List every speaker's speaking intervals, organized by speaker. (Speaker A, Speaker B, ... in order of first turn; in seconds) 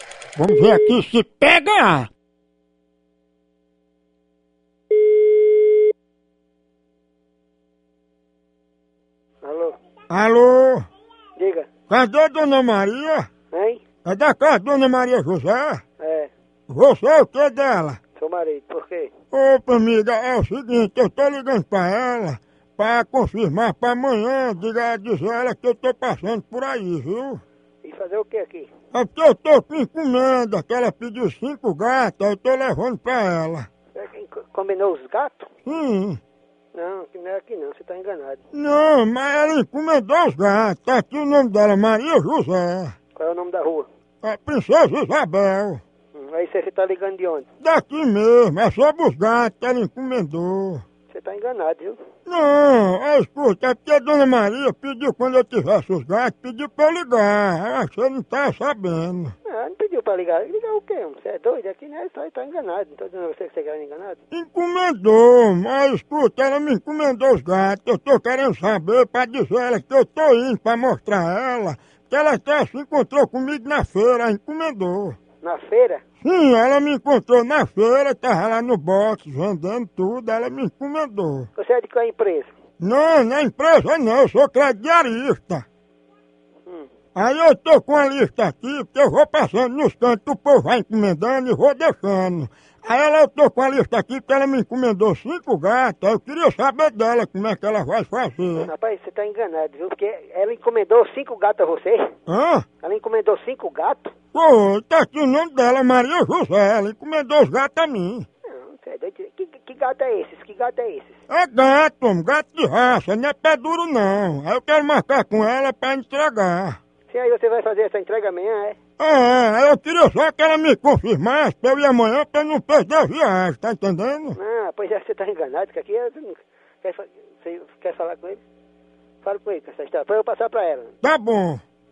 Speaker A: 0.4-2.1, 10.1-10.9, 11.9-13.3, 14.1-15.8, 16.7-18.0, 19.3-27.4, 28.9-33.7, 35.7-36.2, 38.5-42.9, 44.2-45.8, 47.6-50.8, 52.3-59.4, 64.3-75.2, 76.2-81.5, 82.8-85.7, 87.2-98.7, 102.3-102.7, 104.3-108.3, 111.3-116.8, 119.0-124.4, 131.0-131.6
Speaker B: 9.4-9.8, 11.4-11.7, 13.5-13.8, 16.0-16.3, 18.2-19.1, 27.8-28.7, 34.0-35.5, 36.7-38.4, 43.2-43.9, 46.1-47.5, 51.1-52.0, 59.5-64.2, 75.4-76.0, 81.6-82.5, 98.6-102.2, 102.8-104.1, 108.5-111.2, 117.1-118.8, 124.4-128.4, 129.2-130.9